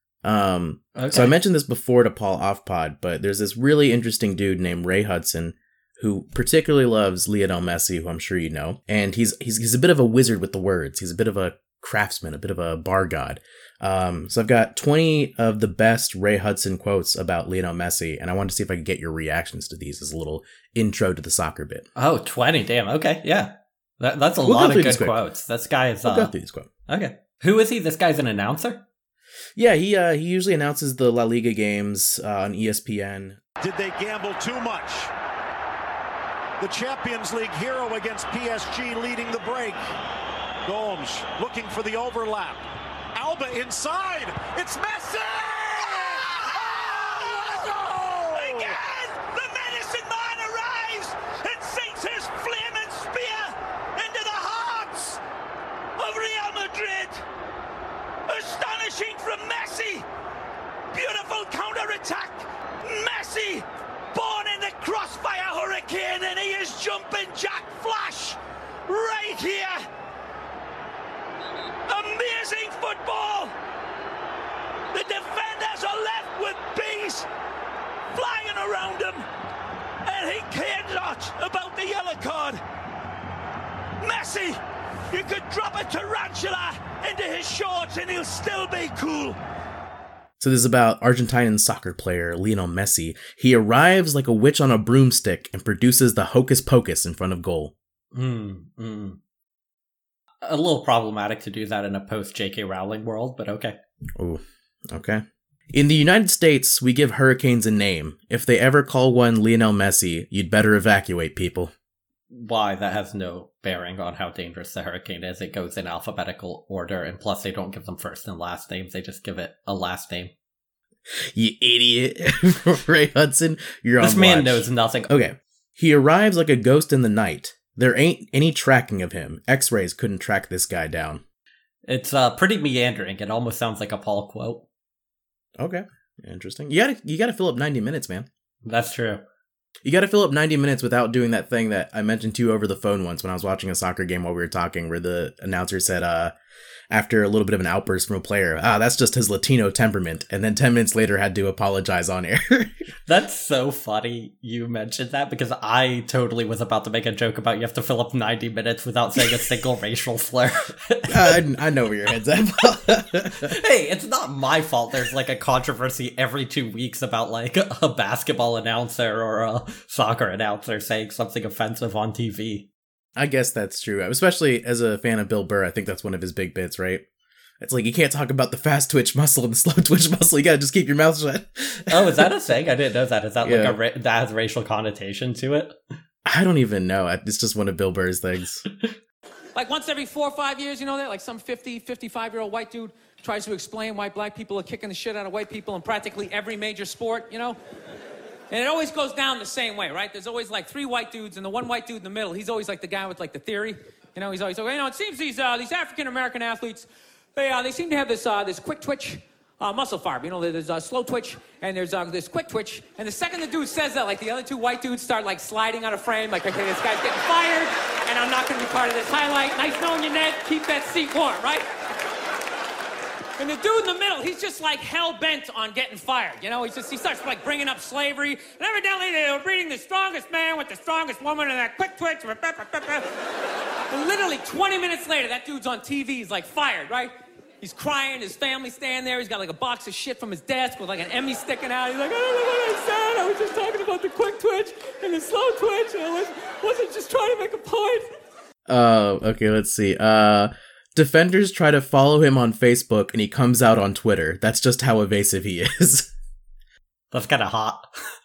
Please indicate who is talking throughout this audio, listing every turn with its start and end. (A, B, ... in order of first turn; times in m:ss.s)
0:00.2-0:21.9 A
0:01.0-0:01.3 B
0:22.0-0:26.3 B
0:24.4-0:25.2 A
0:26.0-0:26.7 A
0:26.9-0:28.8 B
0:29.6-0:33.4 A
0:33.6-0:35.1 C
0:36.6-0:39.8 C
0:40.7-0:42.6 C
0:43.2-0:46.3 C
0:45.7-0:55.2 D
0:46.8-0:48.8 C
0:56.0-0:57.2 D
0:58.3-1:00.1 D
1:00.9-1:09.8 D
1:11.9-1:13.5 D
1:14.9-1:17.3 D
1:18.1-1:19.3 D
1:20.0-1:22.6 D
1:24.0-1:29.4 D
1:30.4-1:37.7 A
1:38.1-1:39.2 B
1:40.4-1:43.8 B
1:44.2-1:51.7 A
1:52.3-2:00.3 B
2:01.1-2:11.2 A
2:04.0-2:05.2 B
2:11.9-2:14.6 B
2:15.6-2:18.3 A
2:18.6-2:19.2 B
2:19.8-2:26.3 A
2:26.9-2:32.7 A
2:33.1-2:41.4 B
2:41.1-2:43.5 A
2:43.4-2:52.7 B
2:53.2-2:57.0 A
2:57.6-3:02.3 A
3:01.9-3:05.8 B
3:03.4-3:03.8 A
3:06.3-3:08.7 A
3:09.6-3:17.6 E
3:18.5-3:41.7 E
3:43.4-3:53.1 E
3:53.9-4:08.1 E
4:08.7-4:16.1 A
4:17.1-4:17.9 B